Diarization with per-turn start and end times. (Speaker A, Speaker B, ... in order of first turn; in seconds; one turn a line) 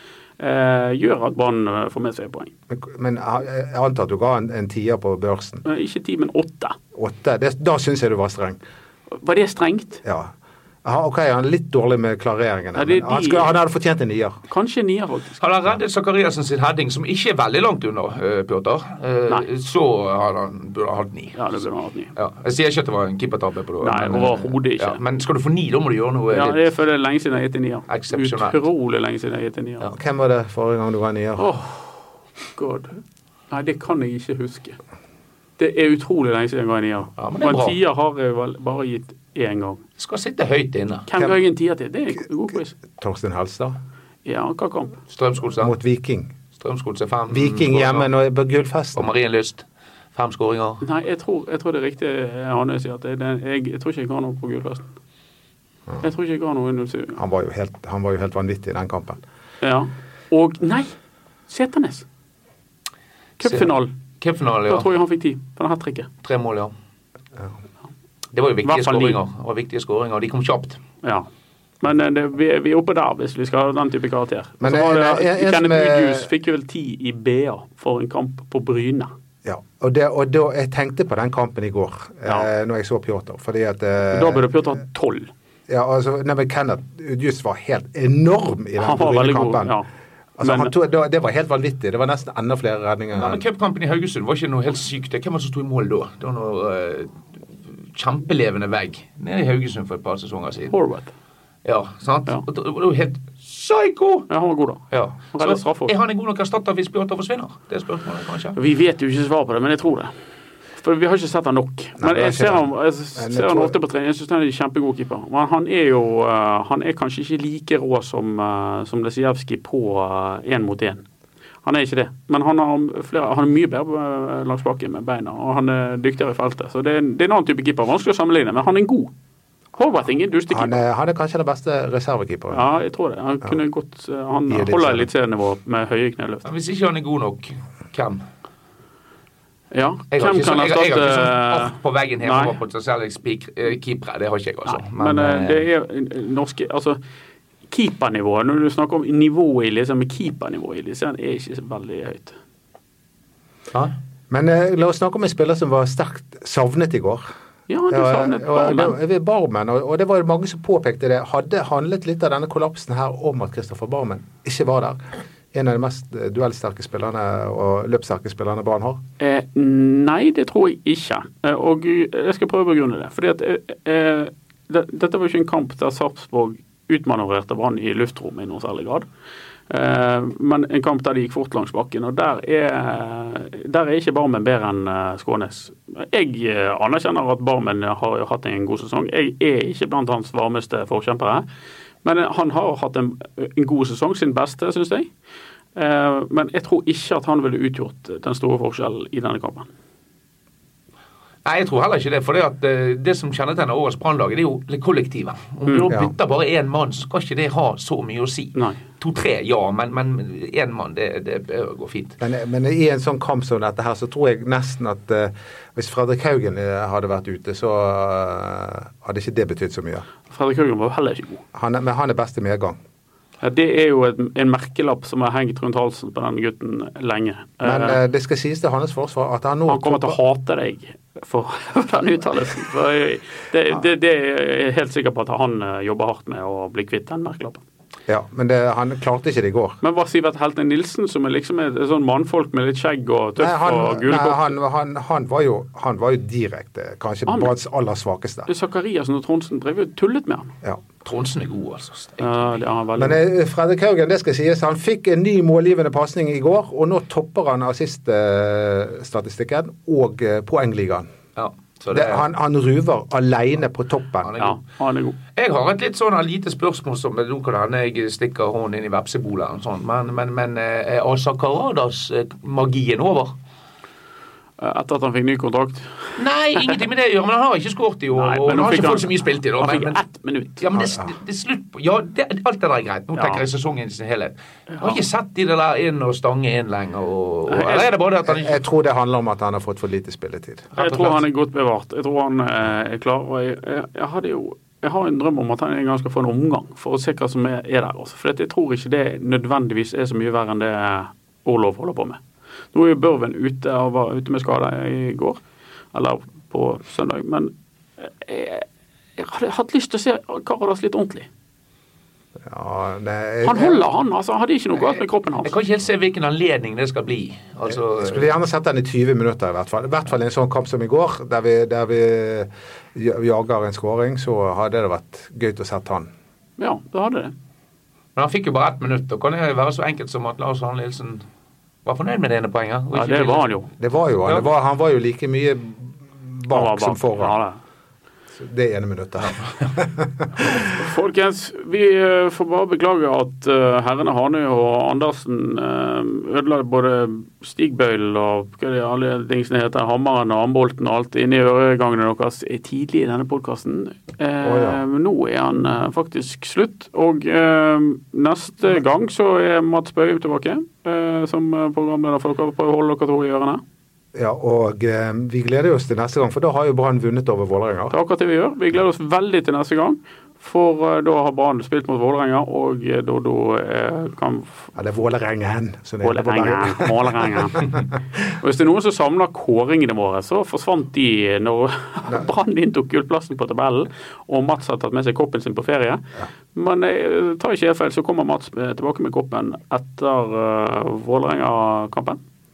Speaker A: 0.4-2.5
Speaker B: 2.7-5.6
Speaker A: 5.7-6.8
Speaker B: 7.0-8.6
Speaker A: 9.1-10.0
Speaker B: 10.0-10.3
Speaker B: 10.8-14.4
Speaker A: 12.8-13.5
Speaker A: 14.5-15.4
Speaker C: 15.4-21.5
Speaker A: 21.4-22.1
Speaker C: 22.2-26.6
Speaker A: 23.8-25.0
Speaker A: 26.3-29.9
Speaker C: 27.9-28.6
Speaker B: 29.9-31.5
Speaker A: 31.4-34.8
Speaker A: 35.6-39.8
Speaker C: 37.2-37.8
Speaker C: 40.0-41.1
Speaker A: 41.1-42.8
Speaker B: 42.8-43.8
Speaker A: 44.2-45.0
Speaker C: 45.1-45.7
Speaker B: 45.6-46.3
Speaker C: 46.6-48.1
Speaker B: 47.3-49.1
Speaker C: 49.0-50.8
Speaker A: 50.8-54.9
Speaker A: 56.0-57.2
Speaker B: 57.1-59.2
Speaker A: 59.6-60.9
Speaker A: 61.5-62.1
Speaker A: 63.4-63.9
Speaker C: 64.2-64.9
Speaker A: 64.7-66.1
Speaker C: 66.2-66.7
Speaker C: 68.3-70.8
Speaker A: 68.6-69.2
Speaker A: 71.0-71.3
Speaker A: 71.8-79.1
Speaker B: 74.6-76.3
Speaker B: 79.5-84.5
Speaker A: 84.1-85.3
Speaker B: 85.7-89.8
Speaker A: 88.8-89.9
Speaker B: 90.4-93.4
Speaker A: 90.4-90.7
Speaker C: 93.2-97.2
Speaker C: 97.8-100.7
Speaker A: 100.7-101.1
Speaker C: 101.7-104.3
Speaker A: 104.3-105.9
Speaker C: 104.9-108.6
Speaker A: 108.6-110.1
Speaker A: 110.8-121.0
Speaker B: 112.0-113.8
Speaker A: 121.6-129.1
Speaker A: 129.8-130.8
Speaker B: 130.5-132.7
Speaker A: 132.5-136.4
Speaker B: 134.5-135.1
Speaker C: 136.4-138.2
Speaker A: 139.7-142.6
Speaker C: 140.1-145.6
Speaker A: 144.7-147.0
Speaker A: 147.7-152.4
Speaker B: 154.3-157.3
Speaker A: 157.7-159.0
Speaker B: 157.9-165.0
Speaker B: 165.5-169.0
Speaker A: 169.2-179.1
Speaker A: 179.7-191.4
Speaker A: 192.0-195.1
Speaker A: 195.8-199.7
Speaker C: 201.4-212.2
Speaker A: 205.7-205.9
Speaker A: 208.6-208.8
Speaker B: 212.2-220.1
Speaker A: 220.3-221.4
Speaker B: 221.5-222.8
Speaker A: 223.4-228.0
Speaker B: 227.6-230.2
Speaker A: 229.7-237.6
Speaker B: 238.1-239.8
Speaker A: 239.8-244.6
Speaker B: 243.4-248.5
Speaker A: 247.3-247.5
Speaker A: 248.5-250.5
Speaker C: 251.1-252.6
Speaker A: 252.2-253.2
Speaker B: 253.0-261.1
Speaker C: 261.4-262.2
Speaker B: 261.9-264.3
Speaker C: 264.2-264.6
Speaker A: 264.4-265.2
Speaker C: 265.3-273.3
Speaker A: 274.6-276.0
Speaker C: 276.2-280.0
Speaker A: 278.1-280.7
Speaker C: 280.6-288.6
Speaker B: 280.8-281.0
Speaker A: 283.1-283.4
Speaker A: 284.7-285.0
Speaker A: 287.5-287.9
Speaker B: 288.3-290.7
Speaker C: 290.7-291.2
Speaker A: 290.8-302.2
Speaker A: 302.7-305.4
Speaker A: 305.9-308.7
Speaker A: 309.2-311.3
Speaker B: 312.4-313.8
Speaker A: 313.4-315.5
Speaker C: 315.4-318.3
Speaker B: 317.7-326.1
Speaker A: 326.6-327.3
Speaker C: 328.2-331.2
Speaker C: 331.9-333.5
Speaker A: 332.9-333.7
Speaker B: 333.8-337.4
Speaker A: 336.5-337.6
Speaker B: 338.3-340.7
Speaker A: 340.6-363.6
Speaker B: 354.4-354.8
Speaker B: 364.1-367.9
Speaker A: 367.9-374.8
Speaker B: 374.8-377.7
Speaker A: 376.0-377.7
Speaker A: 378.4-386.0
Speaker A: 386.5-392.2